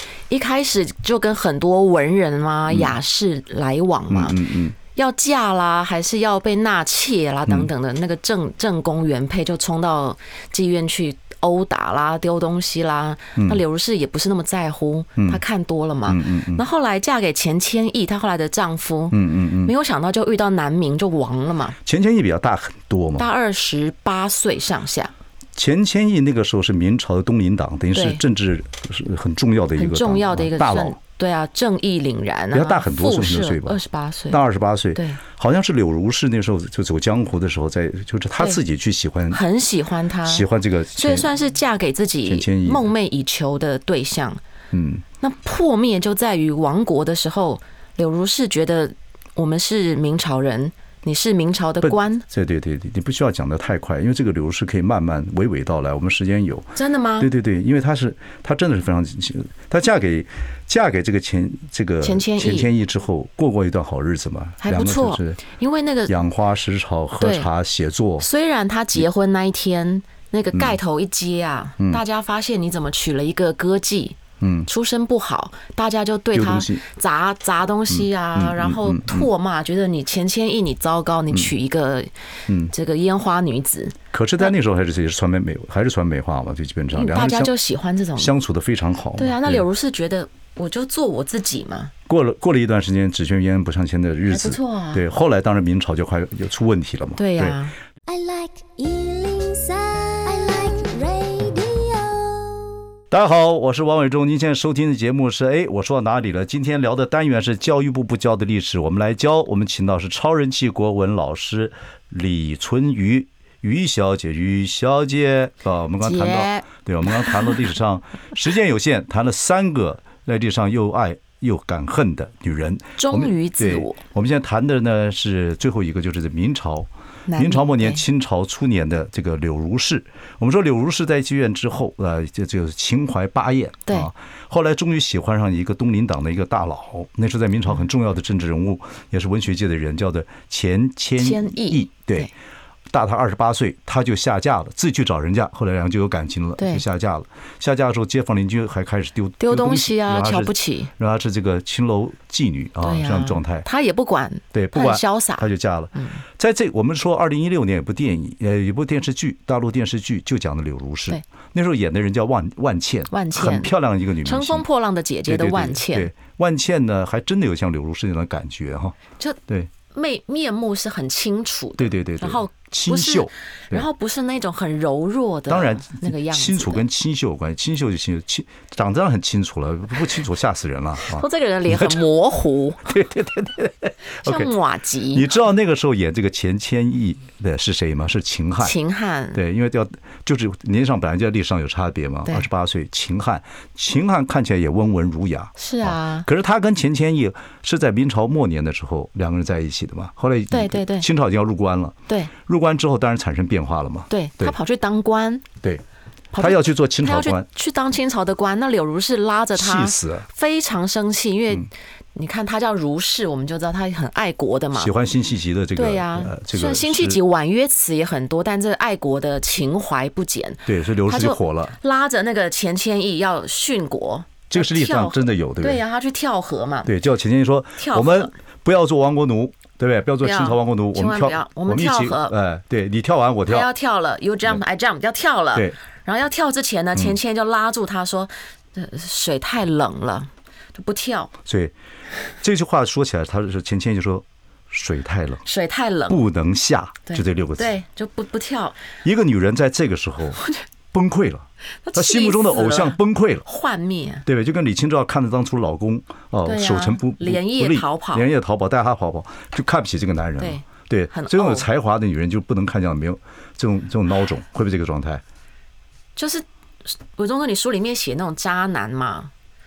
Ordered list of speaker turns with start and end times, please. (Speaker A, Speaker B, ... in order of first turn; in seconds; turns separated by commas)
Speaker A: 0.3-21.8, Speaker B: 2.7-3.0, Speaker B: 4.1-4.7, Speaker B: 13.4-13.6, Speaker B: 16.1-16.6, Speaker B: 19.1-19.7, Speaker B: 21.8-23.3, Speaker A: 23.2-25.1, Speaker B: 25.5-31.0, Speaker A: 27.9-28.2, Speaker A: 29.8-34.4, Speaker B: 32.5-39.4, Speaker A: 34.9-35.2, Speaker A: 39.3-44.4, Speaker B: 40.2-41.3, Speaker B: 42.3-42.9, Speaker B: 44.7-45.0, Speaker A: 45.2-52.2, Speaker B: 51.8-65.4, Speaker A: 56.8-57.3, Speaker A: 62.0-62.7, Speaker A: 64.6-66.1, Speaker B: 66.1-68.3, Speaker A: 67.2-67.5, Speaker A: 68.2-82.1, Speaker B: 74.4-74.7, Speaker B: 76.3-76.8, Speaker B: 77.9-79.3, Speaker A: 82.7-84.5, Speaker B: 84.1-87.5, Speaker A: 86.9-88.3, Speaker B: 88.2-89.6, Speaker A: 89.2-91.9, Speaker B: 92.1-97.6, Speaker A: 94.3-95.0, Speaker A: 97.2-97.7, Speaker C: 98.0-102.7, Speaker B: 103.1-142.3, Speaker A: 116.0-116.7, Speaker A: 123.0-124.0, Speaker A: 127.3-128.0, Speaker A: 141.2-142.3, Speaker B: 142.9-153.7, Speaker A: 146.6-146.8, Speaker A: 149.4-150.9, Speaker A: 152.8-156.2, Speaker B: 154.5-164.7, Speaker A: 163.1-163.7, Speaker A: 164.2-166.1, Speaker B: 165.3-169.0, Speaker A: 169.9-176.8, Speaker B: 171.8-173.8, Speaker B: 175.5-182.0, Speaker A: 181.1-182.8, Speaker B: 182.8-184.5, Speaker A: 184.2-185.3, Speaker B: 185.1-188.8, Speaker A: 188.6-189.4, Speaker B: 189.3-204.6, Speaker A: 195.6-196.3, Speaker A: 200.5-201.1, Speaker A: 204.1-205.5, Speaker A: 206.3-214.9, Speaker B: 206.3-207.4, Speaker B: 209.5-210.3, Speaker B: 214.7-217.2, Speaker A: 215.7-226.9, Speaker B: 220.7-221.8, Speaker B: 224.5-225.8, Speaker B: 226.8-233.7, Speaker A: 227.8-228.3, Speaker A: 230.2-232.3, Speaker A: 233.4-241.3, Speaker B: 241.4-241.7, Speaker B: 242.4-245.4, Speaker A: 245.4-246.2, Speaker B: 246.1-247.7, Speaker A: 247.1-248.8, Speaker B: 249.0-250.4, Speaker B: 250.9-253.4, Speaker A: 251.8-254.2, Speaker B: 254.2-265.2, Speaker A: 256.4-258.2, Speaker A: 260.4-261.7, Speaker A: 266.1-269.3